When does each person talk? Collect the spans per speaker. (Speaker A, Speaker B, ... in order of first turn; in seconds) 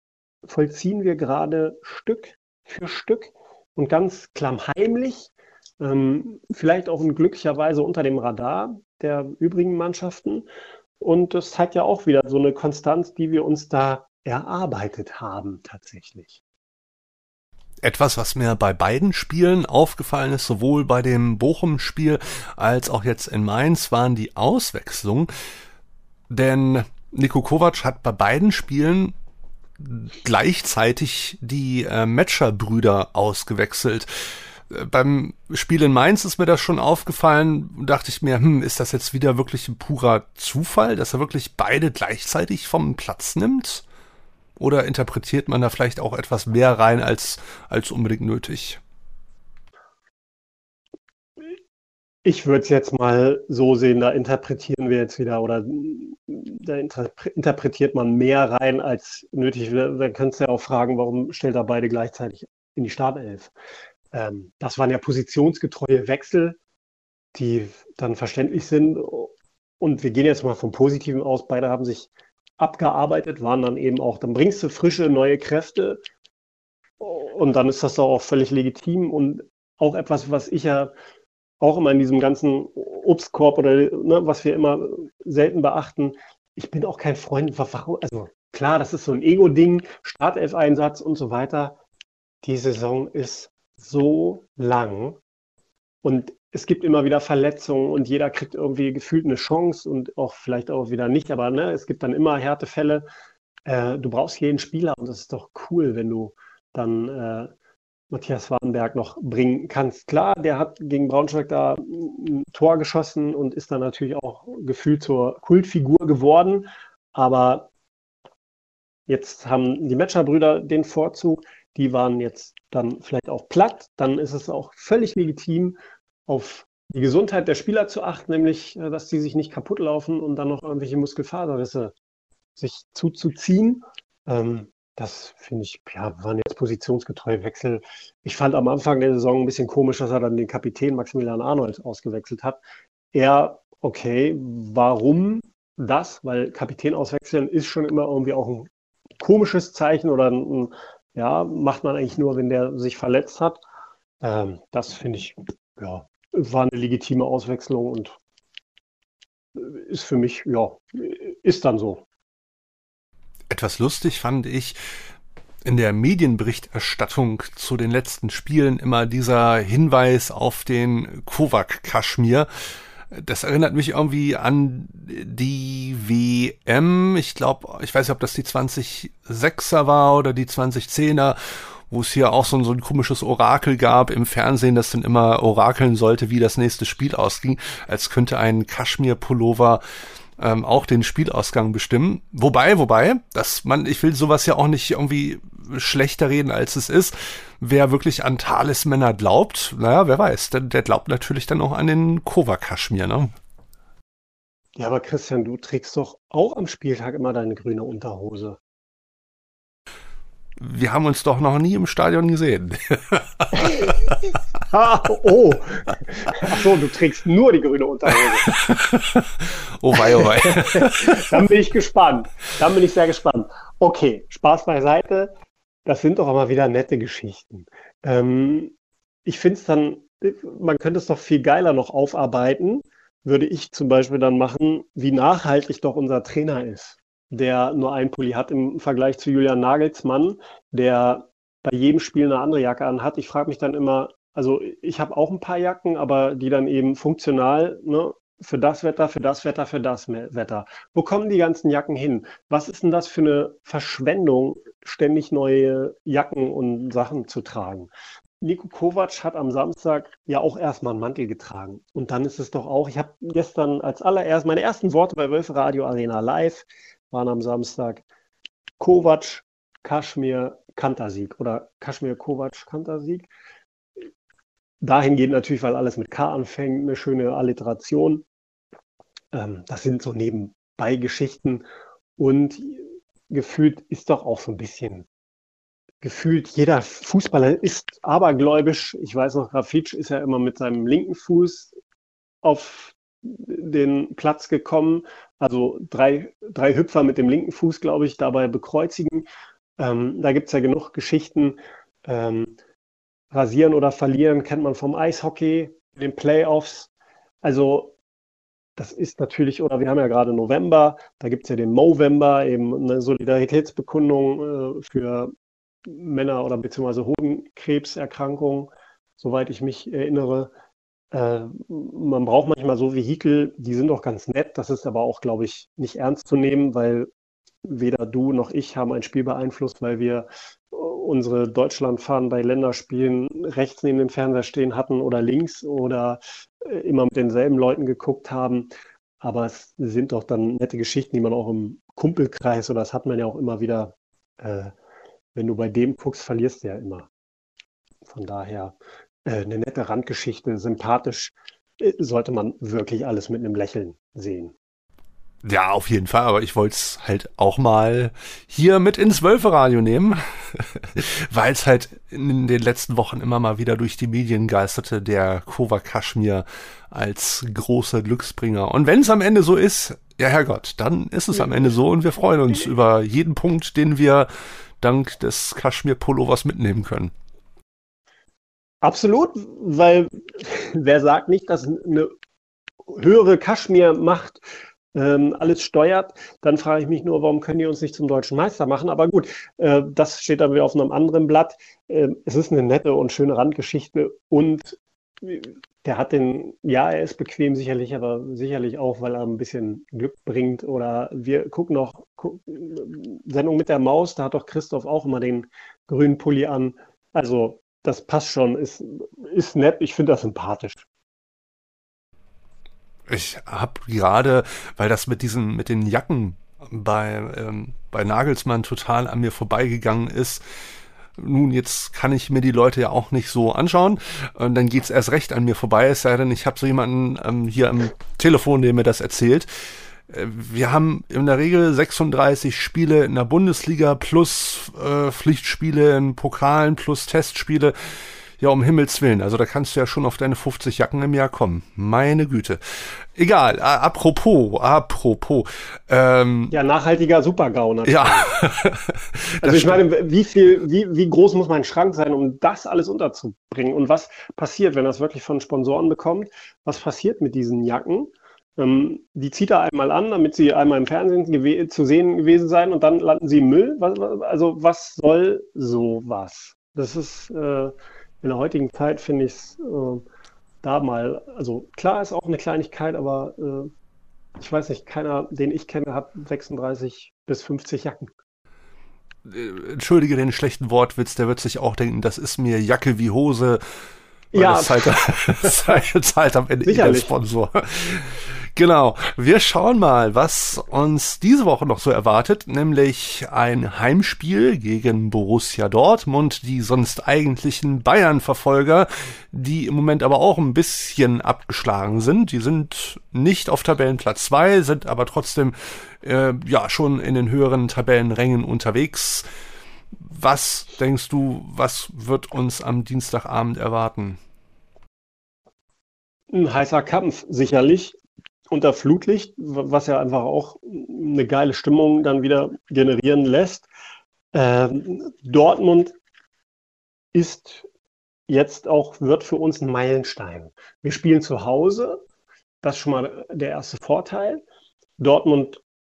Speaker A: 0.5-10.5, 11.0-16.4, 52.2-63.5, 64.1-66.6, 67.3-76.0, 77.0-80.9, 81.6-91.8, 92.4-95.2, 96.0-103.0, 103.7-107.5, 108.1-117.7, 119.1-131.9, 132.6-142.6, 143.1-148.7, 149.2-153.6, 154.2-158.2, 159.6-162.0, 204.8-208.6, 213.5-214.0, 214.7-218.5, 220.0-225.3, 225.9-228.7, 229.2-268.0, 268.8-273.3, 274.8-278.2, 279.3-281.6, 282.2-285.1, 286.0-291.7, 292.4-299.3, 299.8-302.6, 303.3-306.9, 307.4-307.9, 308.8-315.3, 315.9-320.5, 321.1-327.1, 327.6-338.7, 339.2-344.7, 345.4-347.1, 348.1-354.5, 378.8-382.1, 382.9-384.4, 384.9-410.9, 446.5-448.4, 449.4-470.1, 470.6-473.7, 474.4-478.1, 484.3-485.6, 486.6-487.1, 516.3-518.0, 518.5-523.7, 524.3-526.0, 527.1-527.7, 528.3-532.0, 532.6-534.4, 535.0-535.6
Speaker B: 17.8-25.3, 26.3-29.1, 29.8-43.8, 44.6-48.8, 163.5-164.8, 165.6-172.5, 173.1-189.8, 190.4-203.3, 210.6-214.2, 218.5-221.4, 355.4-374.3, 374.8-377.1, 413.1-420.4, 421.2-429.5, 430.1-446.6, 447.9-449.8, 479.2-483.6, 484.3-509.3, 510.0-514.2